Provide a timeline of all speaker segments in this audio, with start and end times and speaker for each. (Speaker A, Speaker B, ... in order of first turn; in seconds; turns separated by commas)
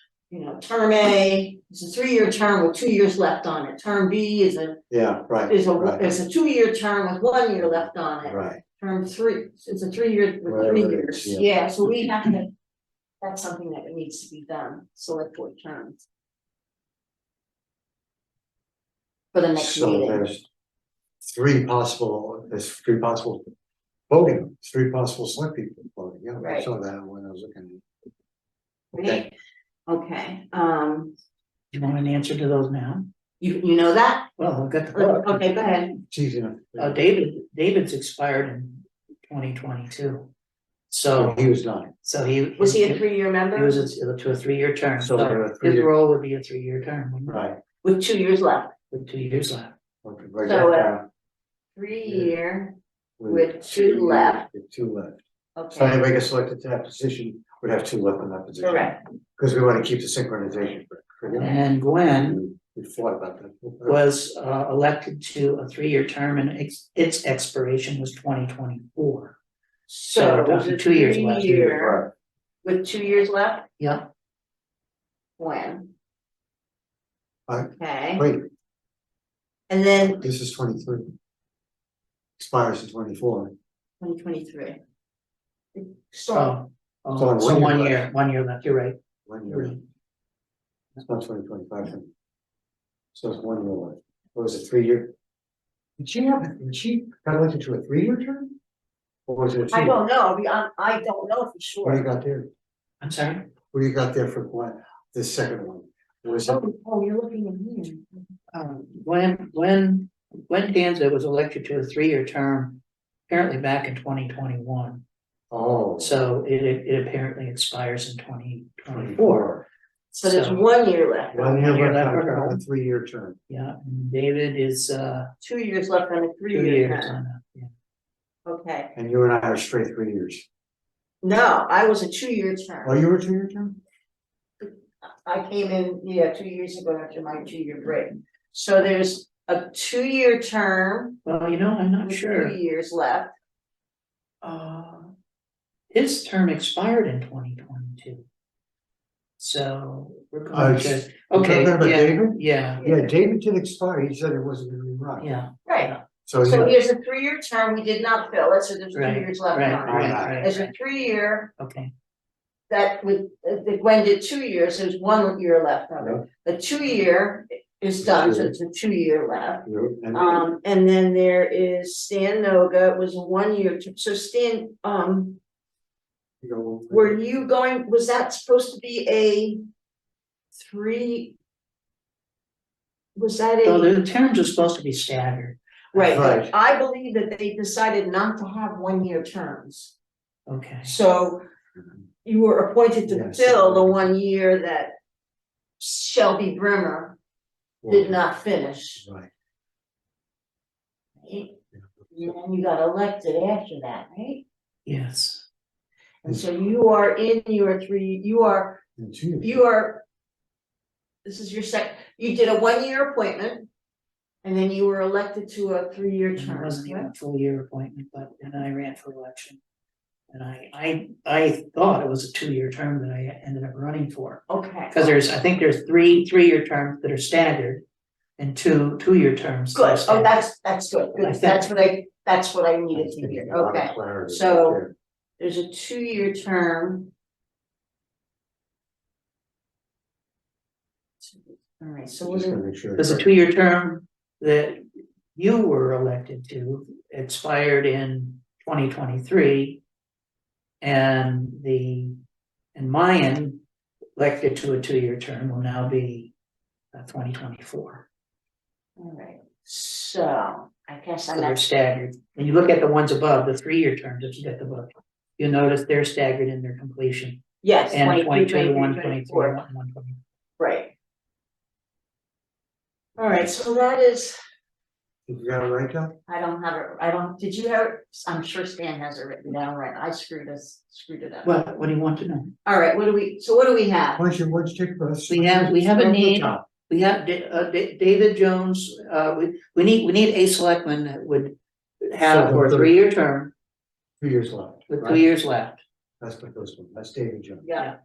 Speaker A: 0.3-4.8, Speaker B: 4.9-6.1, Speaker A: 5.5-12.5, Speaker B: 8.2-8.6, Speaker B: 10.4-11.6, Speaker A: 13.2-16.0, Speaker A: 19.3-20.2, Speaker B: 19.6-20.4, Speaker B: 21.2-23.4, Speaker B: 24.1-27.8, Speaker A: 26.4-26.7, Speaker A: 28.9-29.3, Speaker B: 28.9-29.3, Speaker A: 29.9-31.1, Speaker C: 31.7-33.1, Speaker A: 33.4-34.3, Speaker C: 34.4-35.4, Speaker A: 34.9-36.0, Speaker B: 36.1-37.0, Speaker C: 36.8-40.3, Speaker C: 40.9-41.5, Speaker B: 41.1-41.9, Speaker C: 42.0-47.4, Speaker A: 42.6-43.9, Speaker B: 45.0-45.9, Speaker B: 47.3-47.6, Speaker A: 47.8-48.7, Speaker C: 48.9-49.7, Speaker B: 50.0-51.0, Speaker A: 50.4-51.0, Speaker A: 51.8-52.8, Speaker B: 52.0-52.3, Speaker B: 53.2-64.0, Speaker A: 53.3-54.5, Speaker A: 55.5-56.0, Speaker A: 58.6-59.0, Speaker C: 61.4-62.4, Speaker C: 63.9-69.3, Speaker A: 69.9-72.1, Speaker C: 70.1-71.6, Speaker B: 71.4-72.1, Speaker A: 72.6-73.7, Speaker C: 73.8-74.1, Speaker A: 75.4-75.9, Speaker B: 77.5-78.5, Speaker A: 77.7-78.2, Speaker A: 79.7-80.2, Speaker B: 80.2-81.1, Speaker B: 82.4-83.5, Speaker A: 84.0-84.8, Speaker A: 85.7-86.6, Speaker C: 86.3-89.8, Speaker B: 87.1-88.1, Speaker B: 89.2-89.8, Speaker B: 91.0-92.1, Speaker B: 93.1-95.1, Speaker B: 96.0-98.5, Speaker B: 99.3-100.0, Speaker A: 99.7-102.1, Speaker B: 101.8-102.5, Speaker C: 103.0-103.5, Speaker B: 103.7-106.6, Speaker A: 106.4-108.2, Speaker C: 108.5-115.0, Speaker B: 115.5-116.2, Speaker C: 116.0-119.5, Speaker B: 118.9-119.6, Speaker C: 120.1-120.6, Speaker A: 120.2-121.5, Speaker B: 121.3-123.4, Speaker C: 121.3-122.6, Speaker C: 123.5-125.3, Speaker A: 125.4-127.2, Speaker C: 126.5-127.7, Speaker A: 128.4-128.9, Speaker B: 128.9-130.4, Speaker A: 131.2-133.0, Speaker B: 132.8-133.8, Speaker A: 134.6-141.2, Speaker C: 141.2-142.6, Speaker A: 142.0-143.3, Speaker C: 144.4-145.1, Speaker C: 145.9-148.2, Speaker C: 149.4-152.8, Speaker B: 150.5-155.3, Speaker A: 152.8-153.1, Speaker C: 155.2-156.0, Speaker A: 155.7-161.5, Speaker B: 156.2-156.8, Speaker C: 158.9-160.7, Speaker B: 159.8-160.5, Speaker C: 161.6-161.9, Speaker A: 162.7-175.4, Speaker B: 166.0-166.2, Speaker B: 168.0-168.5, Speaker B: 169.7-170.4, Speaker B: 176.4-177.2, Speaker A: 176.9-179.6, Speaker A: 180.5-181.4, Speaker A: 183.2-183.9, Speaker C: 183.6-186.2, Speaker A: 185.9-189.9, Speaker B: 186.1-186.5, Speaker C: 190.5-190.9, Speaker A: 190.8-191.4, Speaker A: 192.2-194.9, Speaker B: 193.1-194.0, Speaker A: 195.8-197.2, Speaker B: 197.8-198.2, Speaker A: 197.9-199.0, Speaker B: 199.0-199.3, Speaker A: 201.2-201.6, Speaker A: 202.1-204.4, Speaker C: 204.8-205.4, Speaker A: 206.2-208.8, Speaker B: 209.0-209.6, Speaker A: 209.4-210.0, Speaker A: 211.2-213.7, Speaker A: 214.4-217.1, Speaker C: 216.3-219.6, Speaker C: 220.3-227.8, Speaker A: 224.5-225.2, Speaker C: 228.4-230.4, Speaker A: 229.7-234.8, Speaker C: 231.2-231.8, Speaker B: 232.9-234.9, Speaker A: 235.4-237.1, Speaker A: 241.2-242.6, Speaker B: 242.2-243.3, Speaker C: 243.0-244.8, Speaker C: 245.3-249.8, Speaker C: 250.8-252.2, Speaker C: 252.7-253.6, Speaker C: 254.2-256.3, Speaker C: 256.9-258.0, Speaker A: 259.0-261.6, Speaker C: 261.3-270.2, Speaker A: 267.6-269.6, Speaker A: 270.6-270.9, Speaker A: 273.2-274.4, Speaker B: 275.3-276.1, Speaker A: 276.3-281.6, Speaker C: 281.4-282.5, Speaker A: 282.6-284.2, Speaker B: 284.1-286.6, Speaker C: 285.3-293.5, Speaker B: 292.2-292.9, Speaker B: 294.2-295.2, Speaker C: 294.9-295.8, Speaker B: 296.2-297.7, Speaker A: 297.6-297.9